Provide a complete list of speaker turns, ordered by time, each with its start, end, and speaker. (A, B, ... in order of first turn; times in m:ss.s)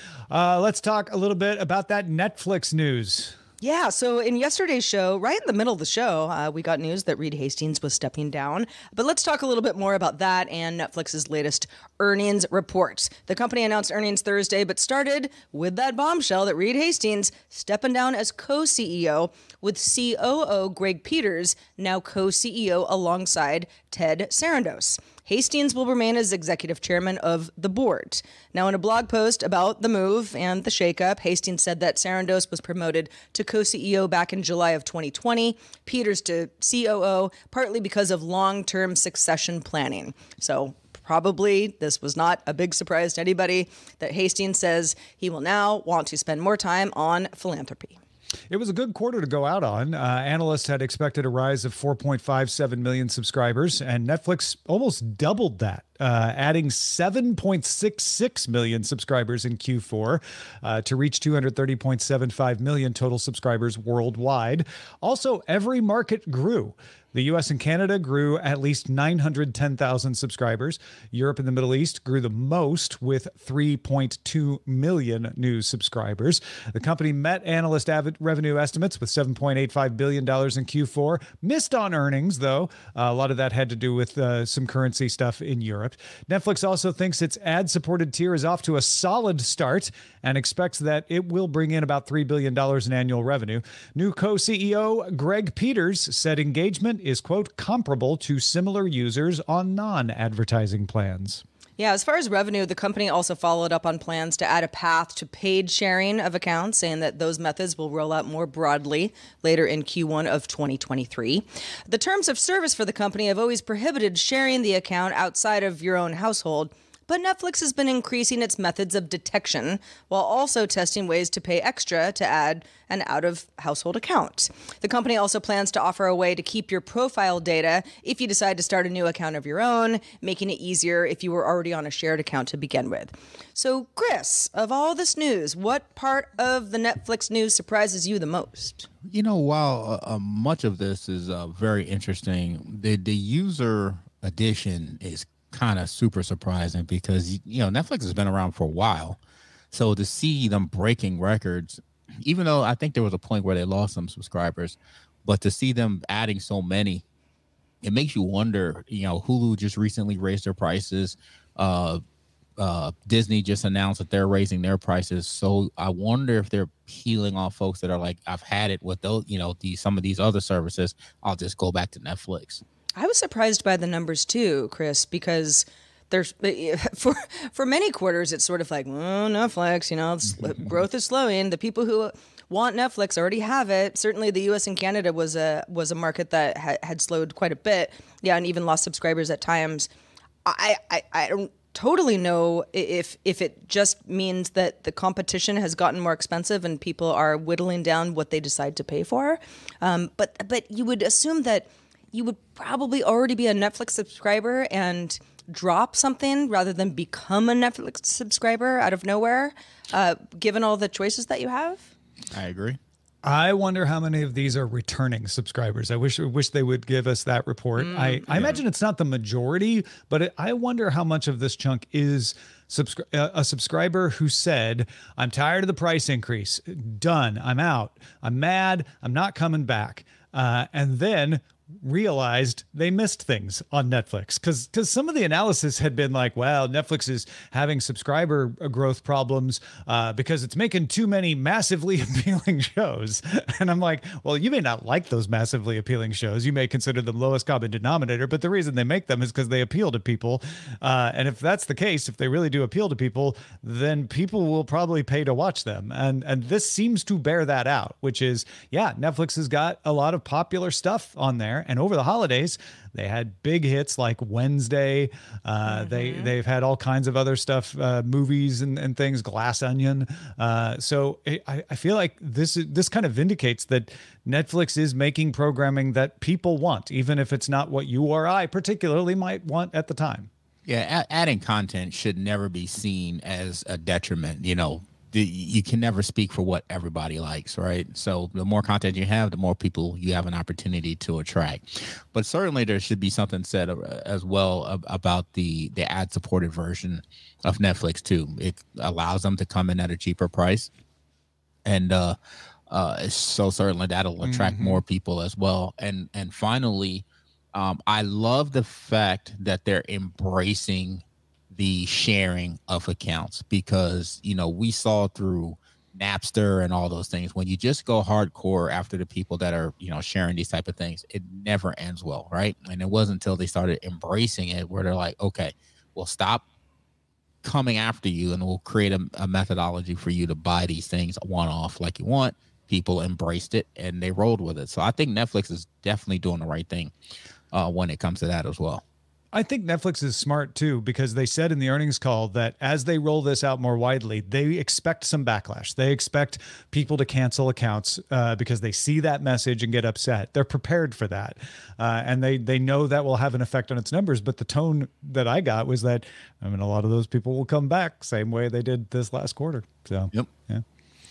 0:00.3-0:03.3 A
0:03.6-0:48.0 B
0:48.5-1:41.4 A
1:41.8-2:18.9 B
2:19.0-2:29.2 C
2:29.7-2:37.0 C
2:37.8-2:42.0 C
2:42.6-2:52.6 C
2:52.9-3:09.9 B
3:10.4-3:31.9 B
3:32.3-3:32.8 C
3:33.2-4:40.3 A
3:37.8-3:38.6 B
3:38.3-3:38.6 C
4:25.7-4:26.3 B
4:40.6-5:00.7 C
5:01.6-5:02.2 C
5:02.7-5:26.4 C
5:04.2-5:04.8 A
5:27.4-5:36.9 C
5:37.5-5:38.8 C
5:39.3-6:00.6 A